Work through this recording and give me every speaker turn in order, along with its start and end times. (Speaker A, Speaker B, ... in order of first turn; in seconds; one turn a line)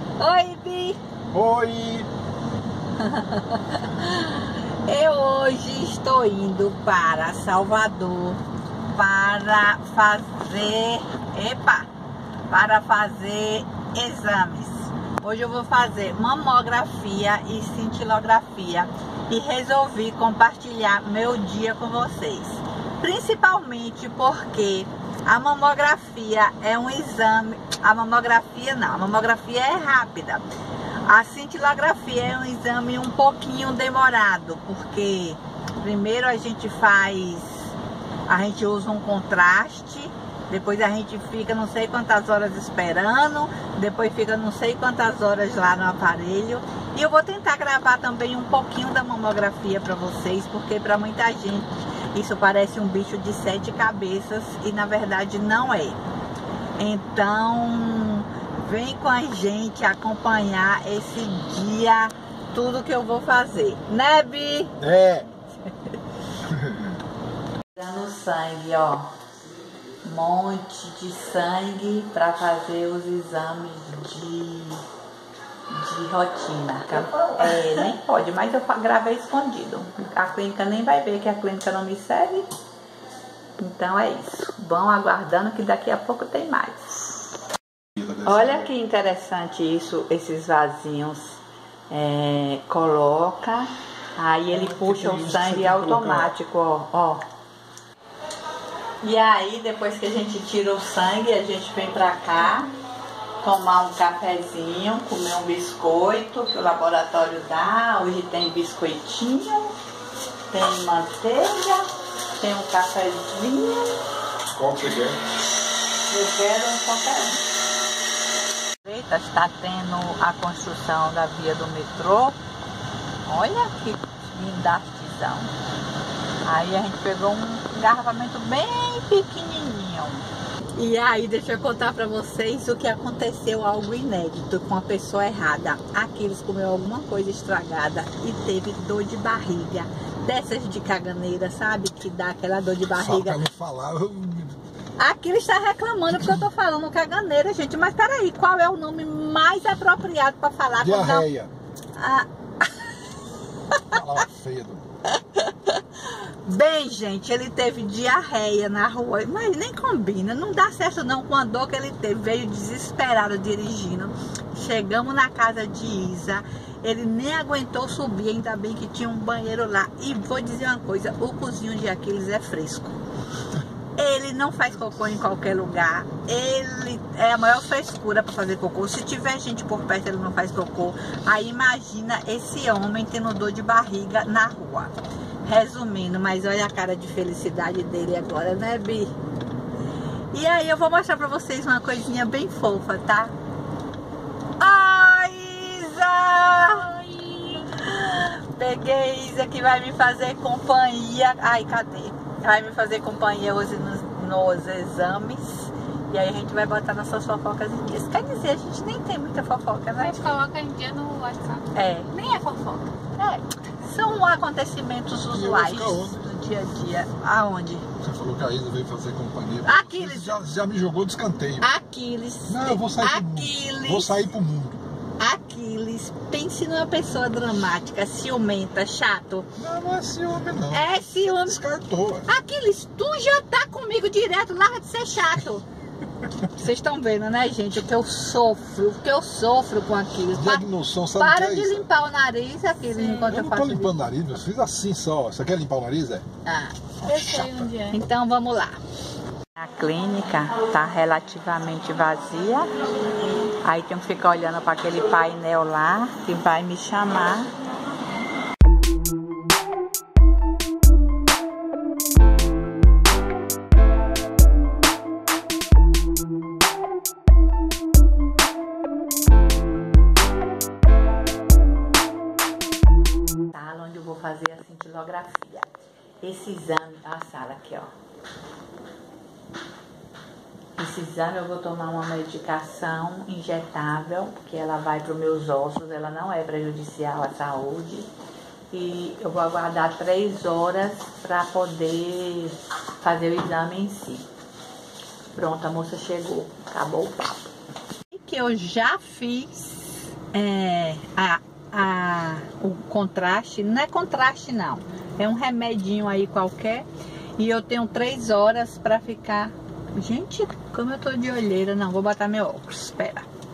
Speaker A: 0.2-1.0
Speaker B: 1.3-2.1
Speaker A: 2.9-11.9
Speaker A: 12.5-30.4
Speaker A: 31.0-37.7
Speaker A: 38.2-56.0
Speaker A: 56.8-64.8
Speaker B: 64.8-65.3
Speaker A: 67.7-69.1
Speaker A: 70.0-74.8
Speaker A: 75.7-82.5
Speaker A: 83.6-87.2
Speaker A: 88.0-97.2
Speaker B: 94.6-96.3
Speaker A: 99.0-102.7
Speaker A: 103.4-109.7
Speaker A: 110.5-113.9
Speaker B: 114.5-115.2
Speaker A: 116.1-117.4
Speaker A: 118.8-122.4
Speaker A: 123.2-125.5
Speaker A: 126.4-143.4
Speaker B: 142.9-144.6
Speaker A: 145.0-151.3
Speaker B: 150.8-151.5
Speaker A: 151.9-153.2
Speaker A: 153.7-154.0
Speaker B: 153.9-154.8
Speaker A: 155.1-173.0
Speaker A: 174.0-184.9
Speaker A: 185.4-189.1
Speaker A: 190.3-193.3
Speaker A: 194.6-210.4
Speaker C: 210.0-212.9
Speaker A: 211.7-212.1
Speaker A: 213.2-217.9
Speaker B: 215.3-216.2
Speaker B: 218.0-221.7
Speaker A: 219.6-220.4
Speaker A: 221.6-224.3
Speaker B: 222.5-224.8
Speaker A: 225.2-229.5
Speaker B: 229.6-232.3
Speaker A: 230.7-231.6
Speaker A: 232.2-235.6
Speaker A: 236.4-244.0
Speaker B: 240.3-241.9
Speaker B: 243.2-246.2
Speaker A: 246.4-248.8
Speaker C: 247.0-248.0
Speaker A: 249.5-252.7
Speaker A: 253.5-257.5
Speaker A: 273.5-277.9
Speaker A: 280.8-288.1
Speaker A: 288.7-294.3
Speaker A: 295.3-297.4
Speaker A: 298.1-313.3